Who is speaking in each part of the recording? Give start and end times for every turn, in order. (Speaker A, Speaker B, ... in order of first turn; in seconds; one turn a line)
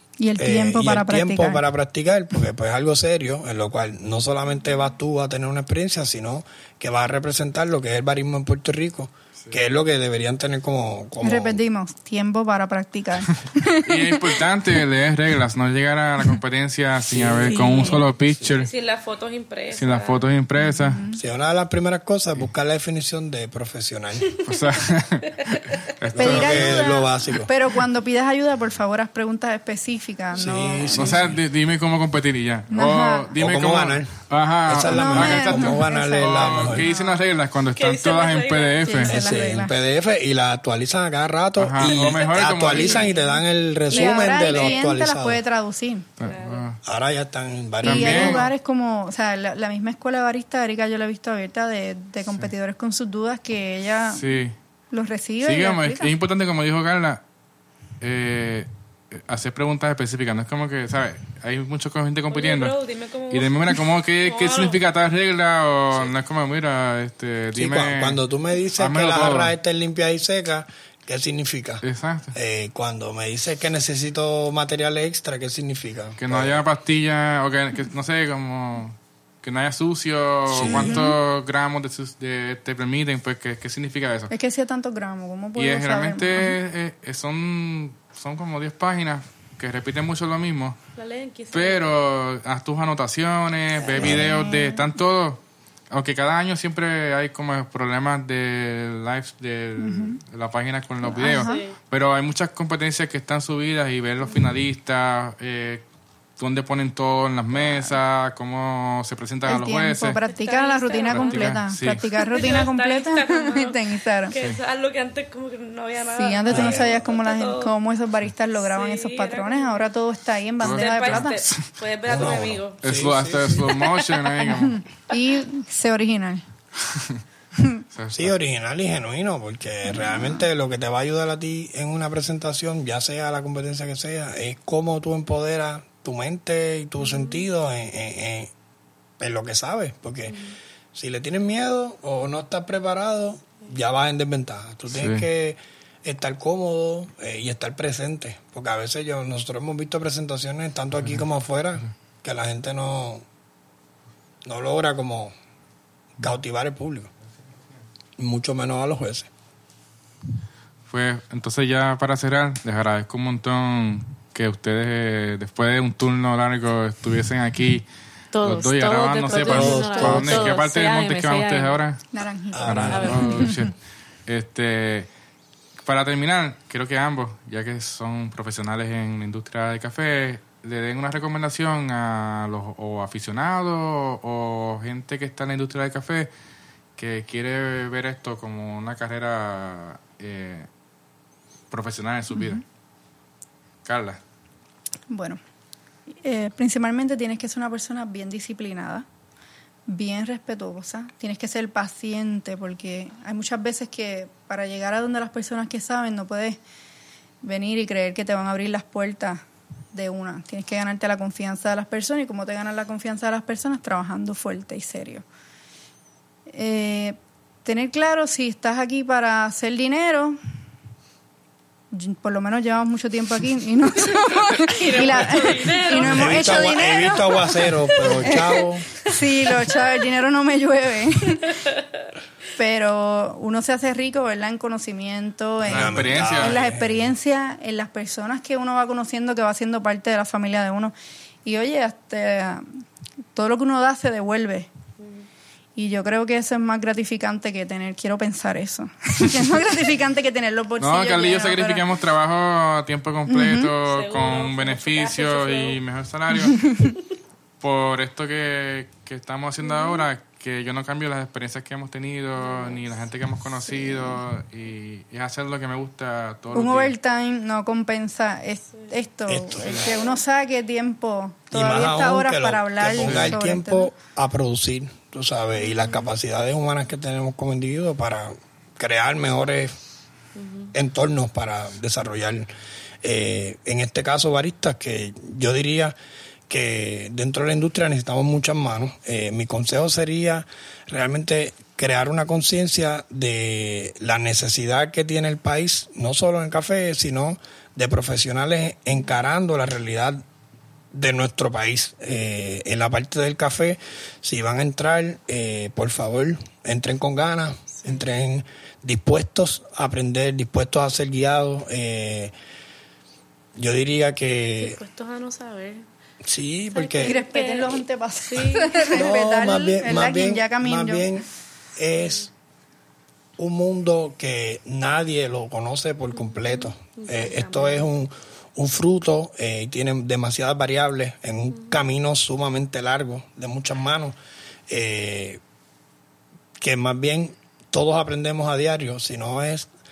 Speaker A: 0.2-1.6
Speaker B: 0.4-11.6
Speaker A: 11.2-14.4
Speaker C: 13.3-18.7
Speaker B: 17.1-18.5
Speaker A: 17.5-18.1
Speaker D: 18.5-20.2
Speaker C: 19.7-21.0
Speaker A: 20.6-21.2
Speaker B: 21.1-24.4
Speaker C: 24.4-26.8
Speaker B: 26.1-27.5
Speaker A: 26.2-31.2
Speaker D: 26.4-26.9
Speaker B: 30.3-31.4
Speaker D: 30.4-31.1
Speaker C: 30.9-39.1
Speaker A: 32.7-33.3
Speaker B: 33.4-34.1
Speaker B: 34.7-36.9
Speaker A: 34.8-37.1
Speaker D: 36.8-37.2
Speaker D: 37.8-39.2
Speaker A: 38.9-39.7
Speaker B: 39.1-45.4
Speaker C: 41.6-43.1
Speaker D: 41.8-43.2
Speaker A: 43.9-46.1
Speaker D: 43.9-44.9
Speaker C: 46.2-46.8
Speaker D: 46.2-46.7
Speaker B: 46.8-48.4
Speaker C: 47.8-48.5
Speaker A: 47.8-54.2
Speaker C: 54.1-54.5
Speaker A: 54.9-56.1
Speaker C: 55.4-57.2
Speaker C: 58.0-62.8
Speaker D: 62.3-64.8
Speaker C: 63.3-68.2
Speaker B: 67.5-76.6
Speaker C: 68.8-69.5
Speaker C: 71.8-72.3
Speaker C: 76.2-84.3
Speaker B: 80.5-81.0
Speaker A: 80.6-81.2
Speaker A: 84.3-86.6
Speaker C: 85.5-90.8
Speaker D: 91.0-91.9
Speaker C: 91.5-105.8
Speaker B: 93.9-94.4
Speaker A: 94.0-94.9
Speaker A: 99.8-100.2
Speaker A: 101.1-101.6
Speaker D: 101.2-101.8
Speaker C: 106.4-110.2
Speaker D: 107.6-107.9
Speaker A: 109.5-114.3
Speaker D: 110.2-111.6
Speaker C: 111.0-112.1
Speaker D: 112.2-117.7
Speaker C: 114.3-114.6
Speaker A: 116.0-121.4
Speaker B: 116.5-117.1
Speaker D: 118.5-119.8
Speaker C: 120.6-121.7
Speaker D: 120.6-122.8
Speaker B: 122.0-123.7
Speaker C: 122.8-124.8
Speaker D: 123.6-124.5
Speaker A: 124.5-126.4
Speaker C: 126.9-127.2
Speaker A: 127.5-127.8
Speaker C: 127.9-128.3
Speaker B: 128.1-138.5
Speaker A: 129.9-130.4
Speaker D: 137.0-137.4
Speaker B: 139.2-140.4
Speaker D: 140.3-140.6
Speaker B: 140.9-153.2
Speaker C: 144.9-145.2
Speaker B: 154.4-155.3
Speaker B: 156.2-157.1
Speaker B: 158.2-159.3
Speaker C: 160.9-167.8
Speaker D: 168.3-171.8
Speaker C: 168.4-172.0
Speaker B: 169.3-170.6
Speaker A: 172.1-173.7
Speaker B: 172.5-173.4
Speaker C: 172.6-173.7
Speaker D: 172.8-173.5
Speaker C: 174.2-175.1
Speaker C: 175.8-186.3
Speaker C: 187.0-190.7
Speaker C: 191.7-192.6
Speaker C: 193.8-194.2
Speaker A: 195.1-195.4
Speaker A: 196.1-199.1
Speaker A: 199.9-206.6
Speaker A: 207.4-215.2
Speaker A: 216.5-220.4
Speaker A: 221.9-231.6
Speaker D: 224.2-229.6
Speaker B: 226.0-228.9
Speaker D: 231.4-231.8
Speaker A: 232.5-240.9
Speaker B: 235.6-237.1
Speaker C: 235.7-236.6
Speaker A: 241.4-242.8
Speaker A: 243.3-244.7
Speaker D: 245.0-245.3
Speaker A: 245.8-251.9
Speaker C: 250.8-256.8
Speaker A: 253.3-253.7
Speaker D: 253.8-255.8
Speaker C: 257.6-266.9
Speaker D: 259.6-260.1
Speaker D: 262.4-263.0
Speaker D: 263.8-264.2
Speaker A: 266.5-273.9
Speaker B: 269.3-270.0
Speaker D: 269.8-270.1
Speaker B: 271.5-279.7
Speaker C: 273.0-273.4
Speaker D: 275.6-276.1
Speaker D: 280.3-280.7
Speaker B: 280.7-282.5
Speaker B: 283.0-285.9
Speaker B: 286.5-300.2
Speaker B: 300.9-312.3
Speaker B: 313.6-314.8
Speaker D: 314.6-315.9
Speaker B: 316.2-317.2
Speaker A: 316.7-321.1
Speaker D: 316.9-319.1
Speaker B: 318.9-322.3
Speaker D: 322.0-322.2
Speaker B: 323.4-334.1
Speaker D: 326.1-327.9
Speaker B: 334.7-335.4
Speaker B: 336.6-339.7